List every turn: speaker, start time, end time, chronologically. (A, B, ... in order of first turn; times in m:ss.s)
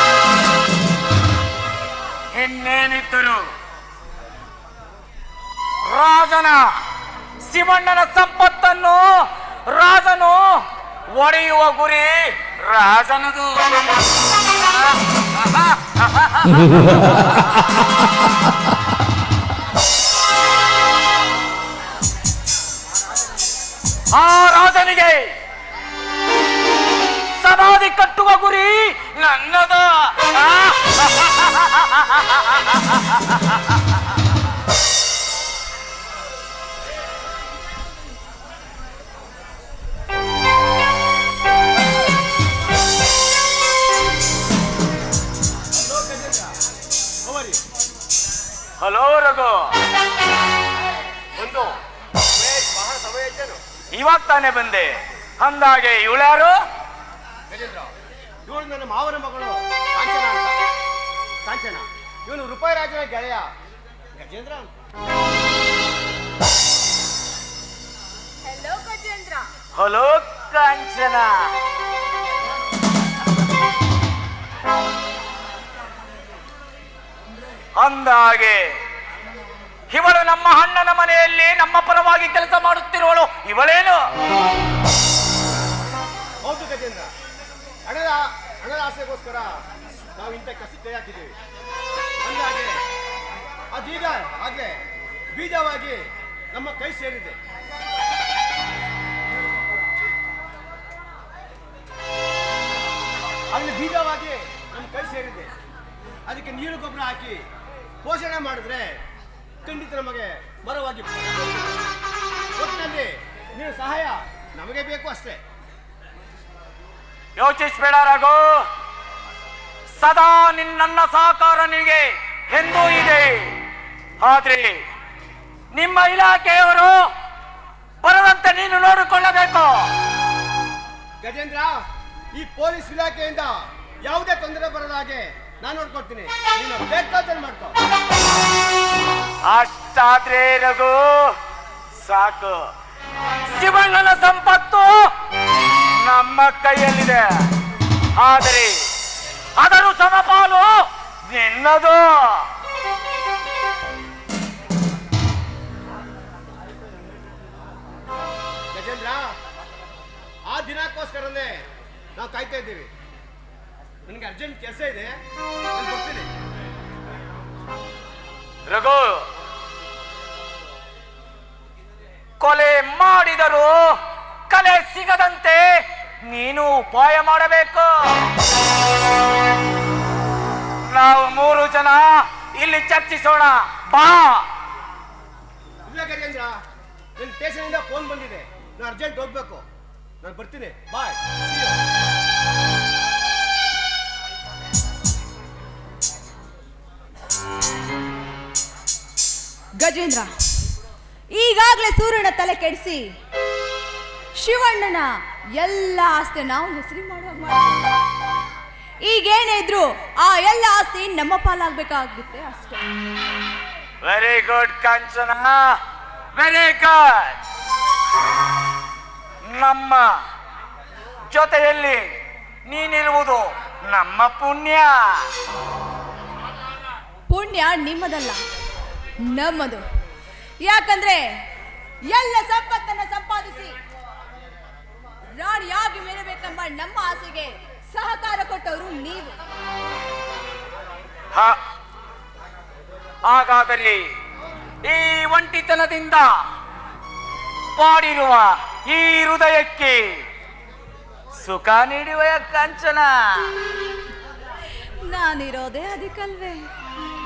0:02.3-0:03.5 A
0:05.8-0:06.6 A
0:07.4-0:13.6 A
0:15.2-0:17.4 A
0:24.1-0:25.3 A
0:27.3-0:32.9 A
0:45.7-0:46.6 B
0:47.2-0:47.6 B
0:48.8-0:49.7 A
0:51.3-0:51.8 B
0:52.3-0:53.6 B
0:53.9-0:56.6 A
0:57.5-0:57.9 B
0:58.4-1:00.6 B
1:01.4-1:03.5 B
1:04.1-1:04.7 B
1:08.4-1:09.5 C
1:09.7-1:11.5 A
1:17.8-1:18.6 A
1:19.9-1:24.0 A
1:26.4-1:27.1 B
1:27.8-1:29.6 B
1:30.2-1:31.3 B
1:32.2-1:32.8 B
1:33.7-1:34.8 B
1:35.3-1:37.4 B
1:43.5-1:45.5 B
1:46.3-1:47.4 B
1:48.0-1:49.0 B
1:49.6-1:51.8 B
1:52.6-1:55.4 B
1:57.4-1:58.6 A
1:59.9-2:03.6 A
2:04.2-2:04.8 A
2:05.7-2:07.0 A
2:08.0-2:09.9 A
2:11.2-2:11.8 B
2:12.3-2:17.8 B
2:19.5-2:21.4 A
2:22.0-2:22.7 A
2:23.5-2:25.1 A
2:26.0-2:27.5 A
2:28.2-2:28.8 A
2:29.6-2:30.7 A
2:31.3-2:32.5 A
2:38.7-2:39.3 B
2:40.5-2:41.6 B
2:42.2-2:42.9 B
2:44.0-2:45.1 B
2:45.7-2:46.3 B
2:48.7-2:49.2 A
2:52.4-2:53.8 A
2:54.5-2:55.6 A
2:56.2-2:57.9 A
3:00.8-3:04.4 A
3:05.8-3:06.5 B
3:07.2-3:09.6 B
3:10.2-3:11.8 B
3:19.8-3:20.3 C
3:21.3-3:23.1 C
3:24.4-3:27.8 C
3:29.0-3:32.8 C
3:34.0-3:35.8 A
3:36.4-3:37.4 A
3:39.4-3:40.0 A
3:41.3-3:42.1 A
3:42.6-3:45.3 A
3:47.3-3:48.4 C
3:49.2-3:49.8 C
3:50.6-3:51.4 C
3:52.1-3:53.8 C
3:55.4-3:59.3 C
4:03.2-4:04.0 A
4:04.8-4:06.3 A
4:07.8-4:10.2 A
4:11.4-4:13.5 A
4:15.0-4:16.7 C